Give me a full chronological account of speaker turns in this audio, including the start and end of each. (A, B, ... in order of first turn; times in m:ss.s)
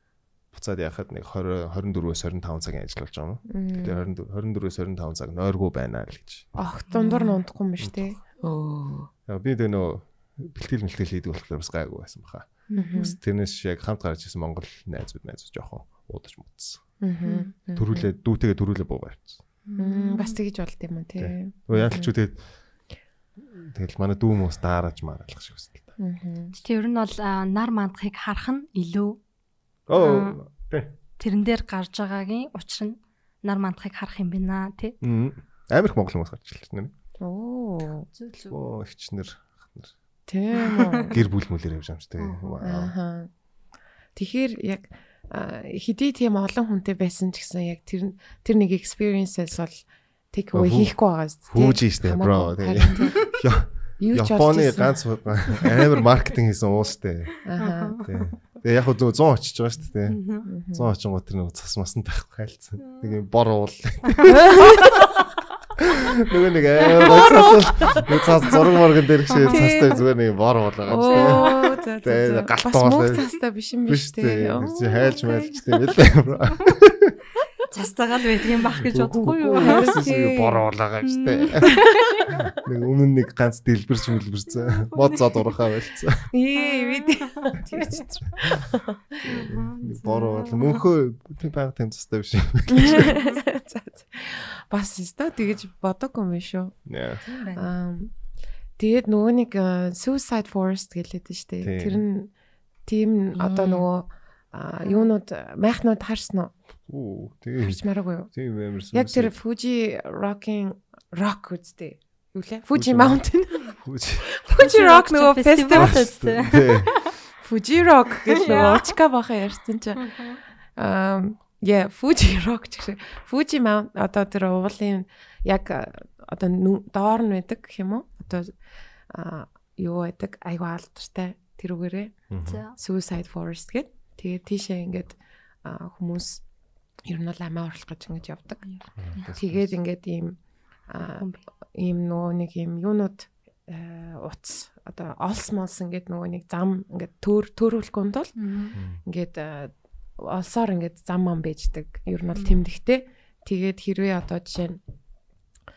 0:00.5-0:06.5 A
0:03.5-0:04.1 B
0:06.6-0:09.1 B
0:06.9-0:07.4 C
0:07.8-0:08.2 A
0:09.3-0:16.8 A
0:12.7-0:13.1 C
0:12.8-0:13.2 B
0:17.0-0:18.1 B
0:17.2-0:17.5 C
0:17.8-0:19.4 A
0:19.7-0:20.4 C
0:19.8-0:22.1 B
0:21.2-0:22.4 A
0:23.4-0:25.9 A
0:26.0-0:26.6 B
0:26.6-0:29.2 C
0:29.9-0:30.9 A
0:29.9-0:30.4 C
0:31.2-0:35.0 C
0:35.0-0:36.9 A
0:37.2-0:38.1 B
0:38.2-0:38.6 C
0:38.5-0:39.9 A
0:40.3-0:41.2 B
0:40.6-0:41.2 C
0:41.1-0:42.9 A
0:42.2-0:42.6 C
0:42.6-0:43.3 B
0:44.2-0:53.3 B
0:50.5-0:51.0 A
0:51.5-0:57.4 A
0:53.0-0:53.3 C
0:54.0-0:55.7 B
0:57.4-0:58.0 B
0:57.6-0:58.1 C
0:58.0-1:00.2 A
1:00.1-1:00.5 C
1:00.4-1:00.9 B
1:00.7-1:05.0 A
1:02.8-1:03.2 C
1:04.1-1:05.0 C
1:05.8-1:13.2 A
1:06.9-1:07.6 C
1:09.3-1:09.6 C
1:09.4-1:10.1 B
1:10.9-1:15.3 B
1:11.0-1:11.6 C
1:13.9-1:17.2 A
1:17.7-1:20.1 C
1:18.8-1:26.3 A
1:19.6-1:20.7 B
1:21.0-1:22.4 C
1:22.0-1:22.5 B
1:24.6-1:25.6 C
1:26.3-1:29.5 B
1:26.6-1:27.5 C
1:29.2-1:30.9 C
1:29.3-1:33.2 A
1:32.7-1:36.8 B
1:36.9-1:37.2 A
1:37.2-1:37.7 C
1:37.6-1:38.1 B
1:38.8-1:42.3 B
1:41.6-1:42.0 A
1:42.9-1:46.5 B
1:43.4-1:43.9 C
1:46.9-1:47.8 A
1:47.6-1:48.3 B
1:48.3-1:49.4 A
1:48.9-1:56.1 B
1:52.7-1:53.2 A
1:53.8-1:54.3 A
1:54.6-1:57.1 C
1:55.8-1:57.0 A
1:57.4-2:00.2 B
1:58.3-1:59.0 C
2:00.0-2:00.4 C
2:00.8-2:08.5 B
2:09.1-2:12.2 B
2:12.3-2:12.6 A
2:12.4-2:12.8 C
2:12.8-2:16.4 B
2:17.1-2:18.7 B
2:18.7-2:19.3 C
2:19.0-2:19.7 A
2:19.4-2:28.4 B
2:21.0-2:21.4 C
2:28.4-2:28.8 C
2:28.7-2:29.0 A
2:29.0-2:34.8 B